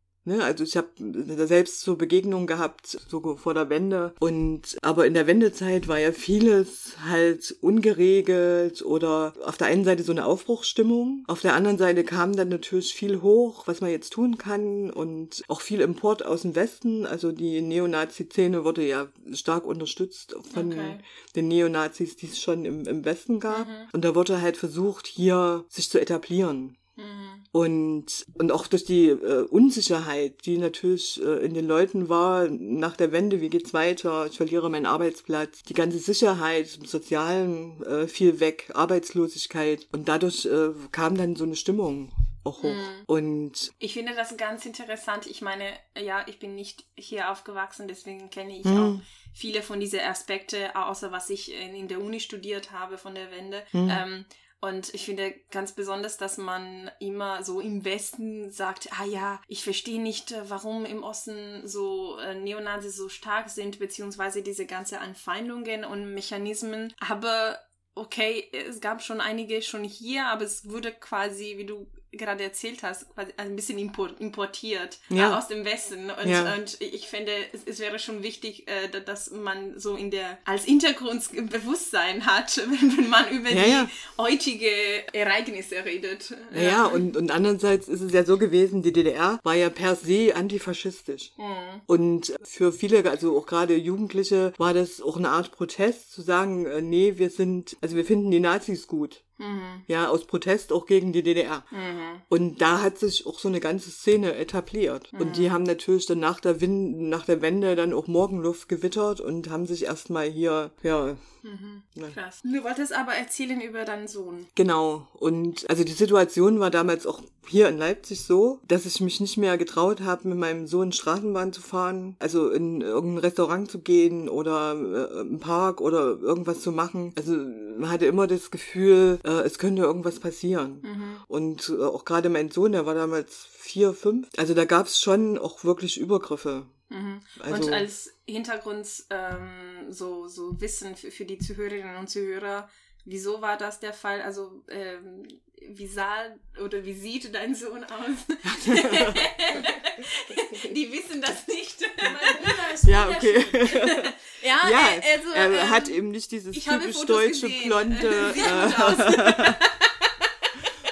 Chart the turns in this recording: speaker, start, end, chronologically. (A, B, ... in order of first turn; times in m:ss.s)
0:00.2-0:26.8 A
0:20.5-0:21.0 B
0:23.5-0:23.9 B
0:27.0-0:27.4 B
0:27.5-0:43.7 A
0:42.6-0:43.1 B
0:43.8-1:27.0 B
0:48.6-0:49.0 A
0:53.7-0:54.0 A
1:15.1-1:15.4 A
1:16.2-1:16.6 A
1:23.5-1:23.9 A
1:26.5-1:31.4 A
1:31.4-1:31.8 B
1:31.9-1:39.2 A
1:39.4-1:39.8 B
1:39.9-1:41.7 A
1:41.7-1:42.2 B
1:42.3-1:51.2 A
1:45.1-1:45.6 B
1:51.4-1:54.5 B
1:54.6-2:16.7 A
2:10.8-2:11.2 B
2:16.9-2:36.0 B
2:17.4-2:17.9 A
2:28.4-2:29.3 A
2:32.8-2:39.6 A
2:36.5-2:40.7 B